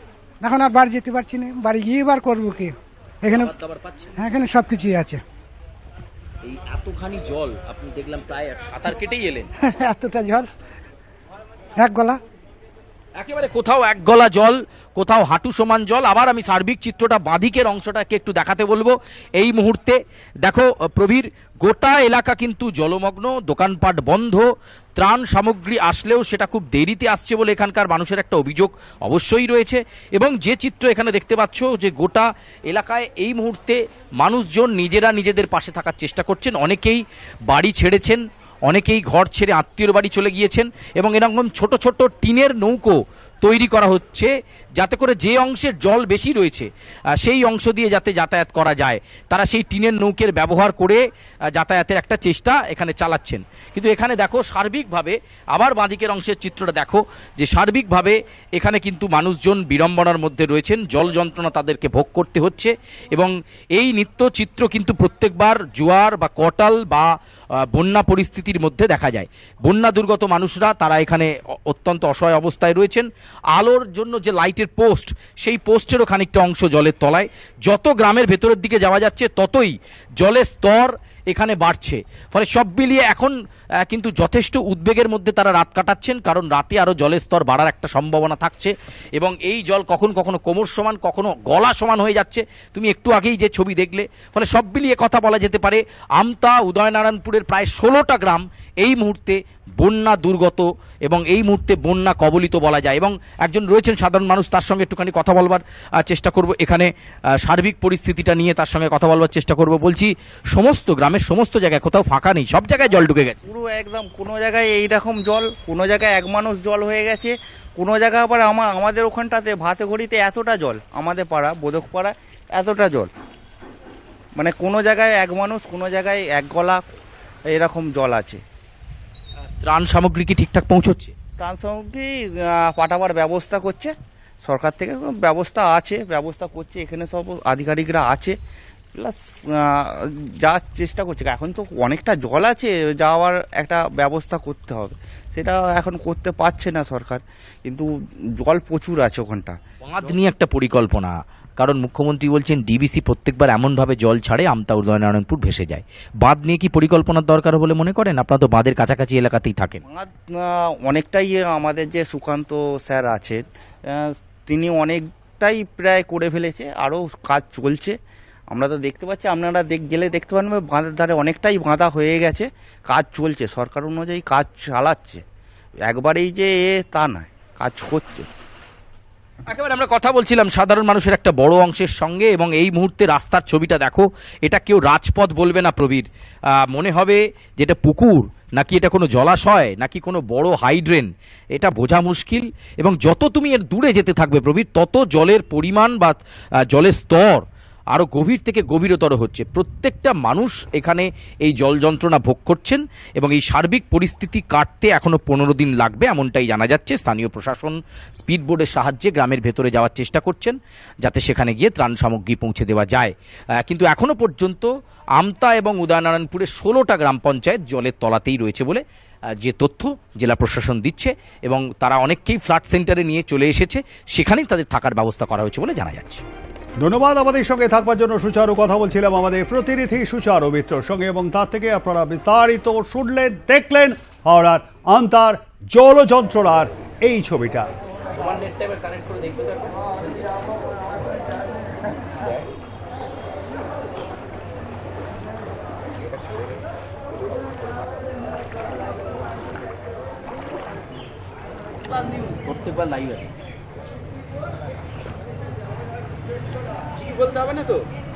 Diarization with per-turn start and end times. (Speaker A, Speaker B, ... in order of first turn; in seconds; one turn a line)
Speaker A: 0.4-3.5
Speaker B: 3.3-4.2
Speaker A: 4.2-5.2
Speaker B: 6.4-9.5
Speaker A: 9.6-10.5
Speaker A: 11.8-12.2
Speaker B: 13.2-24.5
Speaker B: 25.0-51.0
Speaker B: 51.5-67.1
Speaker B: 67.6-106.9
Speaker B: 107.4-113.4
Speaker C: 113.5-123.1
Speaker C: 124.4-126.8
Speaker C: 127.5-128.4
Speaker B: 129.6-131.1
Speaker C: 131.4-138.4
Speaker C: 138.9-147.9
Speaker C: 148.4-149.6
Speaker B: 149.8-159.8
Speaker C: 159.8-168.0
Speaker C: 168.5-175.2
Speaker C: 175.9-178.3
Speaker B: 179.5-196.2
Speaker B: 196.7-218.8
Speaker B: 219.4-226.2
Speaker D: 226.8-237.7
Speaker B: 238.2-240.0
Speaker B: 252.2-253.3